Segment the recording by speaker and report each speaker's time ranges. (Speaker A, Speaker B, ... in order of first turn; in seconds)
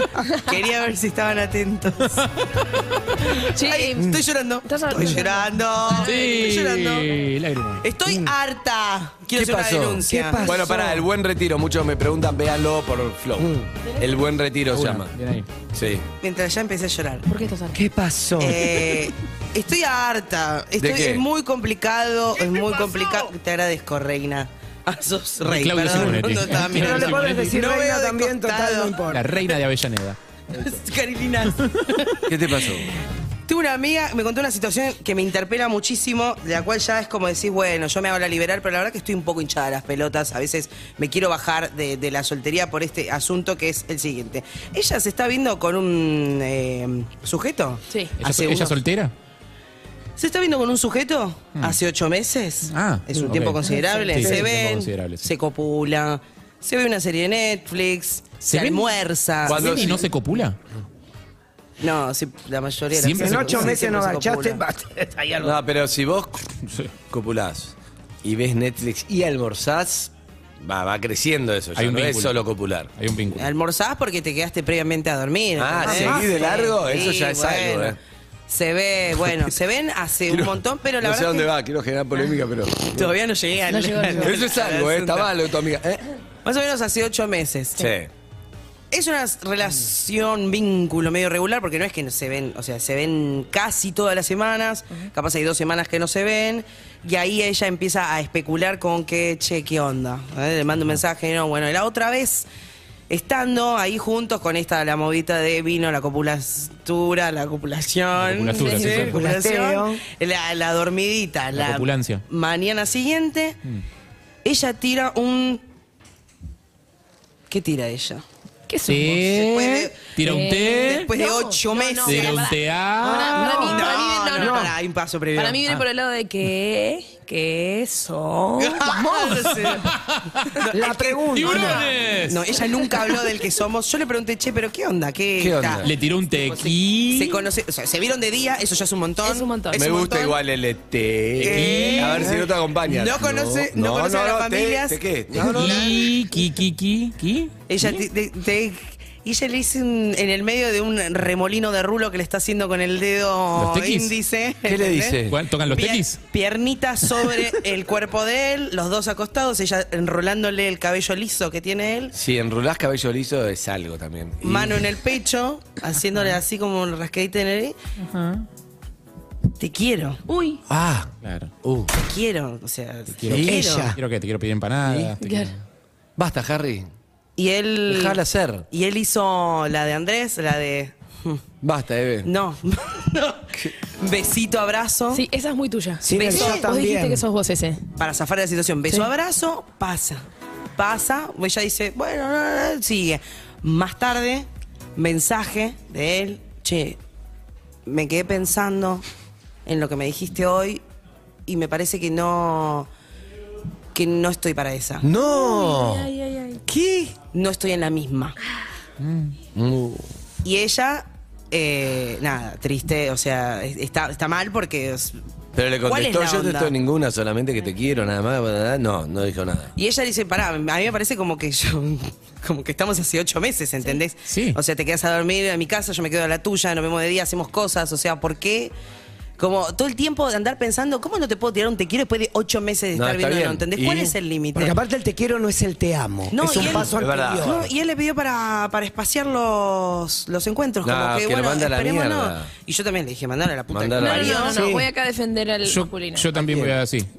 Speaker A: 0.5-2.2, 3.6-7.2, 7.8-10.6, 16.2-17.3, 18.4-29.0, 30.5-32.2, 33.5-48.8, 50.2-60.0, 61.8-64.6, 73.4-78.0, 78.5-81.5, 82.9-85.3, 86.5-87.9, 88.9-102.5, 103.1-113.6, 114.5-115.6, 117.5-118.2, 119.1-122.5, 123.1-125.7, 128.6-129.9, 130.6-135.8, 136.4-140.4, 141.4-146.1, 147.7-162.1, 164.4-167.8, 169.6-170.2, 172.0-173.9, 177.4-178.2, 178.7-181.4, 182.2-183.4, 184.0-185.2, 186.1-186.7, 188.0-190.2, 190.8-197.0, 197.9-199.0, 199.7-200.8, 201.5-202.9, 203.9-205.1, 206.7-208.4, 210.4-215.2, 215.8-216.7, 219.8-228.7, 229.4-234.8, 236.3-244.6
Speaker B: 3.4-5.5, 17.3-17.8, 47.9-48.2, 53.8-54.2, 83.7-84.3, 108.6-109.0, 118.7-119.2, 120.2-124.7, 125.4-129.7, 139.2-140.0, 170.3-170.6, 175.2-175.5, 185.1-187.8, 205.2-206.6, 244.0-246.4
Speaker C: 6.0-7.8, 14.7-15.5, 25.4-27.6, 29.1-30.2, 48.2-49.1, 52.7-53.6, 54.1-55.2, 58.4-58.9, 59.4-60.6, 62.9-63.7, 71.8-72.4, 73.0-73.5, 108.2-109.2, 111.5-112.2, 118.9-121.1, 122.0-123.6, 129.7-130.5, 131.3-132.5, 135.8-137.4, 141.4-142.3, 145.4-147.5, 153.6-154.1, 155.3-156.2, 168.1-168.4, 171.2-171.5, 173.1-175.5, 209.0-209.3, 224.3-224.6, 245.6-247.1
Speaker D: 8.1-8.3, 10.1-11.1, 13.4-13.7, 17.7-18.8, 26.7-29.3, 53.1-54.4, 63.2-65.6, 75.8-76.7, 108.8-110.0, 123.2-124.7, 130.7-131.9, 173.4-174.0, 186.0-187.3, 234.6-237.7, 244.5-244.9
Speaker E: 9.3-15.1, 15.7-16.0, 20.8-21.2, 32.3-32.9, 59.5-60.1, 65.4-66.5, 67.1-72.9, 75.6-78.0, 80.3-83.1, 84.2-86.0, 87.8-88.1, 135.4-135.9, 139.7-146.1, 154.7-155.4, 162.1-164.9, 170.7-171.9, 173.2-173.7, 174.8-175.2, 176.2-176.9, 177.9-178.7, 181.6-182.3, 205.0-206.1, 209.6-210.1, 215.6-219.7, 232.9-234.2, 236.4-237.7, 240.8-242.5, 243.7-244.6, 246.4-246.8